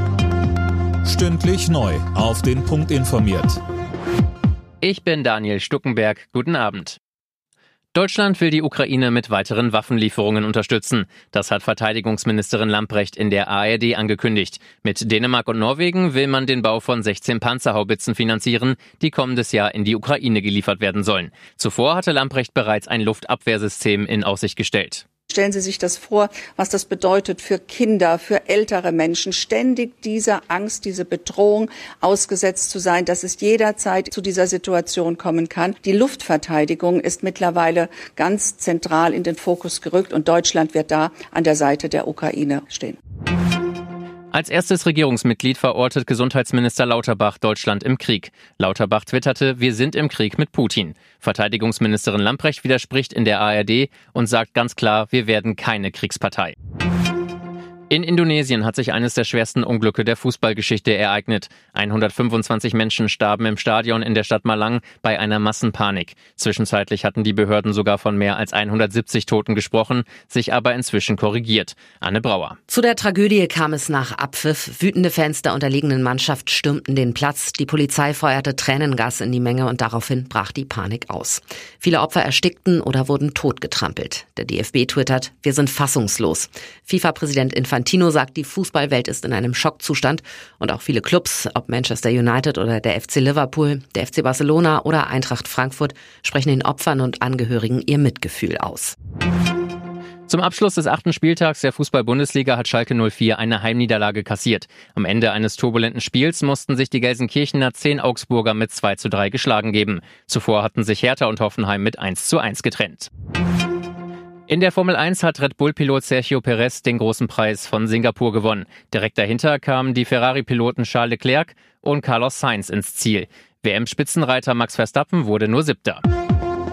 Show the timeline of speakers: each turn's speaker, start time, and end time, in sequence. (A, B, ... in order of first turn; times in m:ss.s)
0:01.0-0:03.6 A
0:04.8-0:07.0 B
0:07.9-0:25.0 B
0:25.3-0:43.0 C
0:44.3-0:56.5 B
0:57.9-1:12.6 B
1:12.7-1:38.9 D
1:40.3-1:53.1 B
1:54.5-2:06.0 B